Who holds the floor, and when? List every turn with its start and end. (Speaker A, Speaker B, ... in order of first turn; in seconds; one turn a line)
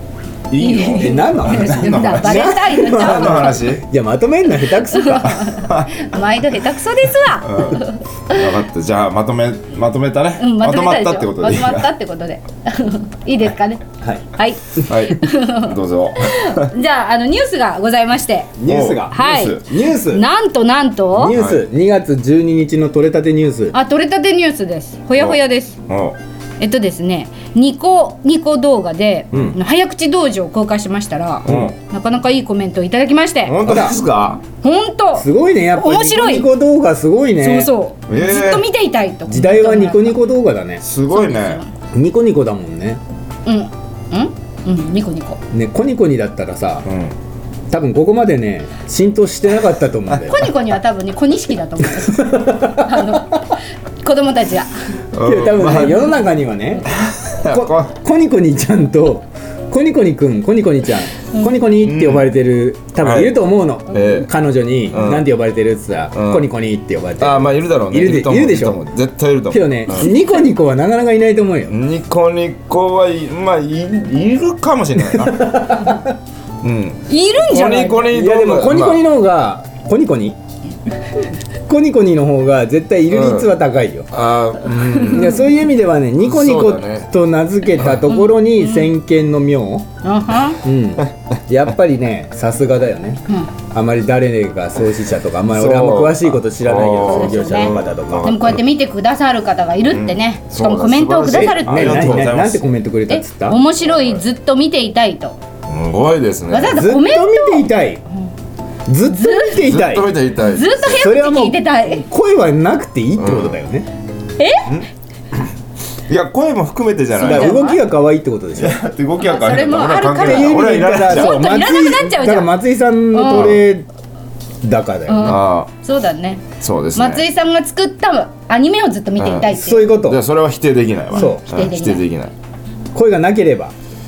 Speaker A: 0.5-3.8
Speaker B: 0.6-3.6
Speaker C: 1.0-5.5
Speaker B: 4.9-8.3
Speaker A: 5.6-5.9
Speaker A: 7.4-11.9
Speaker B: 10.4-13.8
Speaker B: 14.3-18.5
Speaker A: 14.9-16.7
Speaker C: 18.6-20.2
Speaker A: 18.7-19.6
Speaker B: 19.1-21.4
Speaker C: 21.1-23.8
Speaker A: 21.3-21.6
Speaker B: 23.7-25.8
Speaker A: 25.2-26.2
Speaker B: 26.6-33.6
Speaker A: 29.3-29.6
Speaker A: 31.4-31.8
Speaker A: 33.5-34.4
Speaker C: 33.6-34.0
Speaker B: 34.6-36.5
Speaker C: 35.2-37.7
Speaker B: 37.4-40.2
Speaker A: 38.1-38.7
Speaker C: 39.3-40.8
Speaker A: 40.8-41.6
Speaker B: 41.1-41.7
Speaker C: 41.9-43.0
Speaker B: 43.5-45.4
Speaker C: 45.5-46.9
Speaker A: 46.9-47.1
Speaker C: 47.7-50.4
Speaker B: 50.3-54.8
Speaker C: 52.0-53.2
Speaker A: 55.1-56.1
Speaker C: 55.2-56.9
Speaker A: 56.9-57.9
Speaker C: 57.5-68.8
Speaker A: 61.8-62.3
Speaker A: 63.0-63.4
Speaker A: 63.9-64.3
Speaker A: 64.9-65.3
Speaker A: 66.1-66.5
Speaker A: 67.2-70.1
Speaker C: 69.5-71.7
Speaker A: 71.7-75.9
Speaker C: 75.2-76.0
Speaker A: 76.6-79.1
Speaker B: 77.1-78.1
Speaker C: 78.1-80.4
Speaker C: 81.7-84.1
Speaker A: 83.1-83.5
Speaker A: 84.1-85.5
Speaker C: 85.0-89.9
Speaker A: 86.2-87.1
Speaker B: 88.1-88.9
Speaker B: 90.0-90.6
Speaker C: 90.6-98.5
Speaker A: 95.5-98.6
Speaker B: 97.0-102.2
Speaker A: 99.9-102.7
Speaker C: 101.3-103.6
Speaker B: 103.1-105.4
Speaker A: 103.8-104.2
Speaker A: 105.7-106.9
Speaker B: 106.5-107.7
Speaker C: 106.7-108.0
Speaker C: 108.9-110.2
Speaker B: 109.1-109.6
Speaker A: 109.5-111.0
Speaker B: 110.4-112.0
Speaker C: 110.8-113.9
Speaker A: 113.2-113.6
Speaker B: 114.4-114.7
Speaker A: 116.1-117.7
Speaker C: 117.2-118.8
Speaker B: 117.2-117.8
Speaker A: 118.6-121.4
Speaker B: 119.2-122.6
Speaker C: 120.1-123.9
Speaker B: 123.1-123.5
Speaker A: 123.3-123.6
Speaker C: 124.6-125.4
Speaker B: 125.1-126.4
Speaker A: 125.2-125.7
Speaker A: 126.6-127.2
Speaker B: 127.0-129.9
Speaker A: 129.2-132.3
Speaker C: 129.5-130.2
Speaker C: 131.2-131.4
Speaker B: 131.2-132.1
Speaker C: 132.9-133.7